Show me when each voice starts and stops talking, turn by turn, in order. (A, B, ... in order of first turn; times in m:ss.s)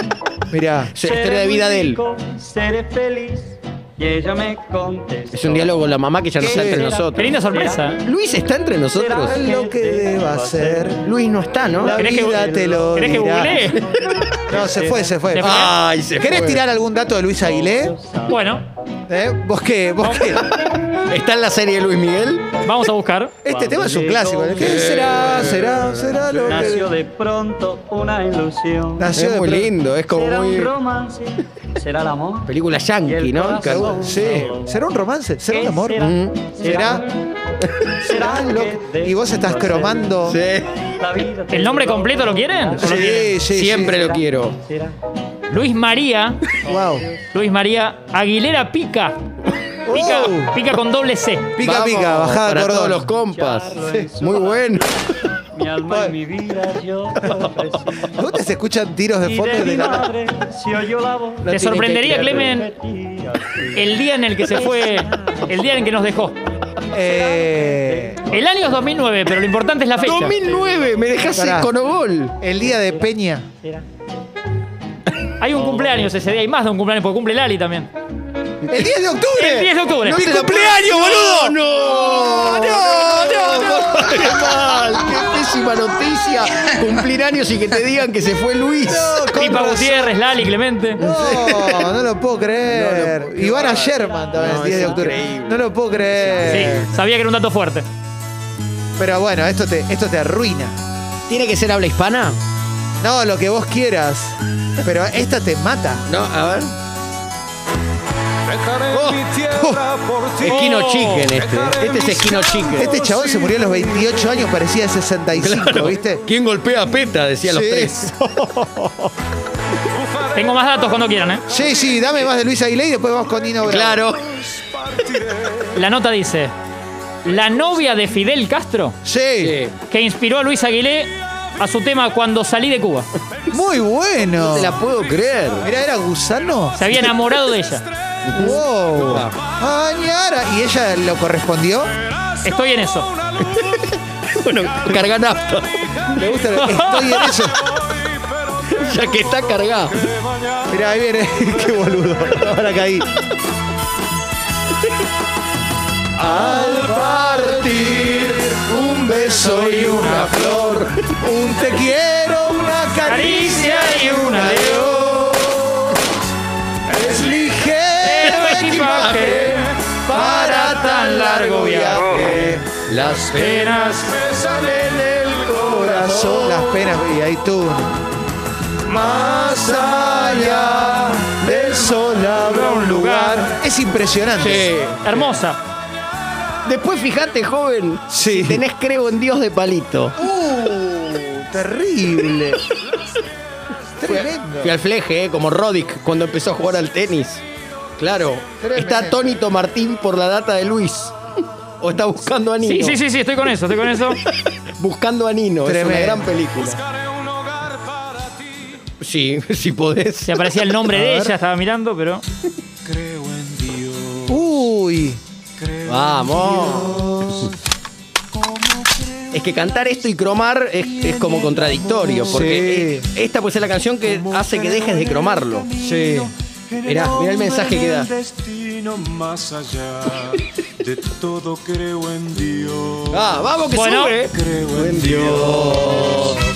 0:00.5-0:00.9 A
0:01.0-0:02.0 B
0:01.0-0:08.0 C
0:05.3-0:07.3 B
0:06.4-0:06.9 A
0:07.2-0:08.0 D
0:08.0-0:09.4 B
0:08.9-0:11.2 C
0:09.2-0:11.0 A
0:11.0-0:12.0 B
0:11.8-0:13.4 C
0:11.9-0:13.7 A
0:11.9-0:13.8 D
0:14.5-0:17.9 A
0:14.7-0:15.8 D
0:15.4-0:16.6 B
0:17.4-0:18.4 C
0:18.3-0:18.6 D
0:19.1-0:20.5 A
0:20.4-0:22.5 B
0:22.6-0:23.4 D
0:23.4-0:26.9 A
0:23.5-0:25.6 C
0:24.6-0:25.9 B
0:26.4-0:29.1 C
0:29.0-0:29.7 A
0:29.2-0:30.7 B
0:30.1-0:34.8 C
0:32.5-0:34.3 B
0:33.6-0:36.0 A
0:35.6-0:37.1 C
0:36.0-0:36.6 B
0:36.6-0:37.0 A
0:38.0-0:40.2 C
0:38.1-0:40.4 A
0:40.3-0:40.7 B
0:41.0-0:43.2 C
0:41.5-0:43.3 D
0:42.8-0:44.0 A
0:43.5-0:44.6 B
0:43.9-0:45.0 C
0:45.5-0:46.5 D
0:46.6-0:47.3 C
0:46.7-0:47.0 A
0:47.3-0:49.2 D
0:49.8-0:50.6 A
0:49.9-0:51.5 D
0:51.6-0:53.1 A
0:51.6-0:54.9 B
0:53.2-0:54.7 C
0:55.5-0:58.2 C
0:55.9-0:56.1 A
0:58.2-1:00.1 A
0:59.2-1:05.9 C
1:01.4-1:02.6 B
1:01.5-1:02.7 D
1:03.8-1:06.4 D
1:06.9-1:08.2 A
1:07.0-1:08.5 C
1:08.3-1:10.4 D
1:10.0-1:12.4 B
1:10.5-1:11.0 C
1:11.3-1:11.7 A
1:12.4-1:13.5 A
1:15.4-1:17.9 D
1:18.6-1:18.9 B
1:18.7-1:24.6 A
1:19.4-1:20.2 D
1:20.0-1:29.2 B
1:28.9-1:30.2 A
1:29.3-1:31.0 D
1:31.0-1:36.9 A
1:31.0-1:31.9 B
1:32.7-1:36.9 B
1:36.4-1:37.9 D
1:39.0-1:40.8 A
1:41.3-1:42.4 B
1:43.0-1:46.0 A
1:46.1-1:46.8 B
1:48.5-1:50.6 E
1:48.9-1:49.3 B
1:49.5-1:49.8 A
1:50.4-1:53.0 B
1:50.4-1:51.3 D
1:51.3-1:54.1 E
1:52.8-1:56.2 A
1:55.4-1:58.1 B
1:57.4-1:59.1 A
2:00.3-2:01.5 D
2:01.5-2:04.0 A
2:03.6-2:04.3 B
2:04.4-2:05.7 E
2:05.8-2:06.5 D
2:07.2-2:09.0 D
2:09.0-2:09.6 A
2:09.4-2:09.8 B
2:09.9-2:13.1 D
2:13.5-2:14.8 A
2:14.4-2:15.7 B
2:15.6-2:16.8 A
2:16.8-2:17.9 D
2:18.3-2:19.4 B
2:18.3-2:21.9 A
2:22.4-2:23.1 D
2:23.4-2:26.1 B
2:26.2-2:27.6 A
2:26.6-2:27.2 D
2:28.7-2:30.0 B
2:30.1-2:30.7 E
2:30.7-2:33.1 A
2:36.2-2:46.0 A
2:37.8-2:40.9 B
2:43.1-2:45.0 D
2:46.9-2:52.7 A
2:48.0-2:52.2 D
2:48.2-2:49.7 B
2:52.9-2:56.7 B
2:53.4-2:54.3 E
2:55.8-2:58.0 A
2:58.9-3:04.7 A
3:02.4-3:03.5 D
3:04.4-3:05.4 B
3:05.0-3:05.6 D
3:06.6-3:10.2 B
3:08.1-3:08.6 A
3:10.2-3:12.6 A
3:14.0-3:14.7 A
3:14.1-3:17.4 B
3:18.0-3:21.2 B
3:18.6-3:19.2 A
3:21.8-3:23.0 B
3:22.6-3:24.2 D
3:24.3-3:26.8 B
3:25.6-3:26.3 A
3:26.7-3:28.8 E
3:29.0-3:30.7 B
3:30.3-3:32.2 D
3:30.9-3:31.3 A
3:32.8-3:34.4 E
3:34.3-3:35.2 A
3:35.6-3:37.3 E
3:35.8-3:37.0 B
3:36.6-3:37.5 A
3:38.4-3:39.6 E
3:39.3-3:45.7 B
3:40.9-3:42.7 E
3:42.3-3:43.1 A
3:44.0-3:53.4 E
3:45.8-3:46.3 A
3:46.8-3:48.1 B
3:53.1-3:56.4 B
3:53.7-3:54.2 D
3:54.3-3:56.3 E